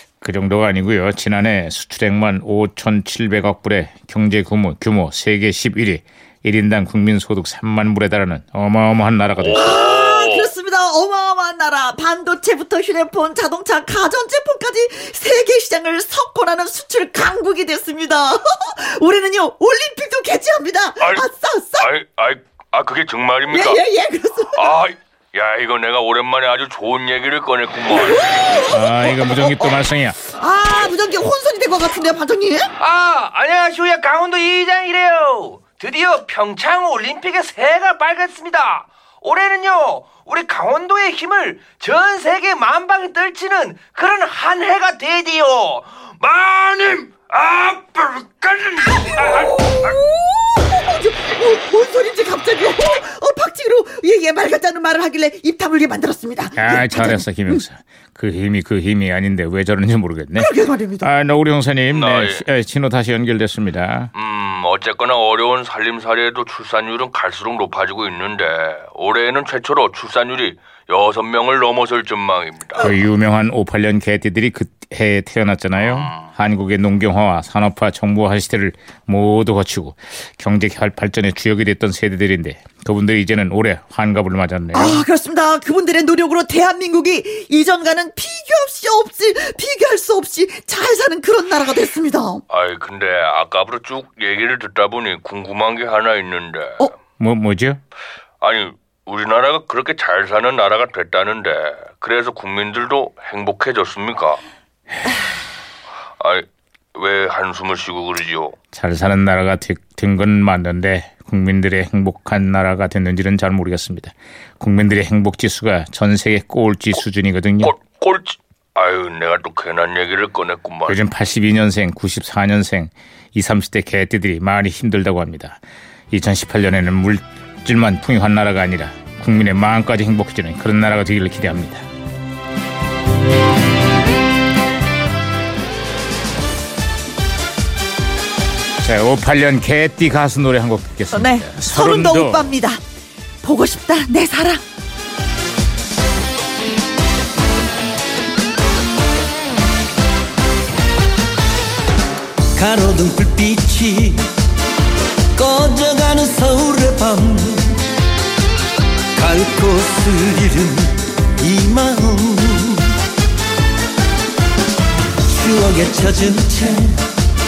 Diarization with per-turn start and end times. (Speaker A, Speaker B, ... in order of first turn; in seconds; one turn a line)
Speaker A: 0.2-9.7
Speaker B: 9.4-10.5
Speaker C: 9.5-21.9
Speaker B: 21.0-21.2
Speaker B: 21.8-23.8
Speaker C: 23.5-24.8
Speaker B: 24.6-28.5
Speaker C: 28.0-29.8
Speaker A: 28.7-30.2
Speaker C: 30.3-32.7
Speaker B: 32.8-33.5
Speaker D: 32.8-49.2
Speaker B: 35.6-36.2
Speaker B: 40.0-40.4
Speaker B: 41.6-41.9
Speaker B: 43.3-44.0
Speaker B: 46.5-49.3
Speaker C: 49.3-57.6
Speaker A: 56.6-64.1
Speaker C: 60.4-61.1
Speaker B: 61.9-62.4
Speaker B: 64.2-72.9
Speaker A: 72.8-85.0
Speaker B: 75.8-76.3
Speaker C: 84.7-92.4
Speaker B: 92.5-96.9
Speaker A: 97.2-97.8
Speaker B: 98.4-104.4
Speaker B: 106.2-108.5
Speaker A: 108.7-117.7
Speaker B: 117.6-121.0
Speaker A: 120.9-125.6
Speaker A: 126.1-131.8
Speaker A: 138.8-142.5
Speaker C: 141.1-142.8
Speaker C: 143.4-144.6
Speaker E: 152.6-154.3
Speaker E: 155.3-157.8
Speaker E: 159.2-162.9
Speaker E: 165.2-167.1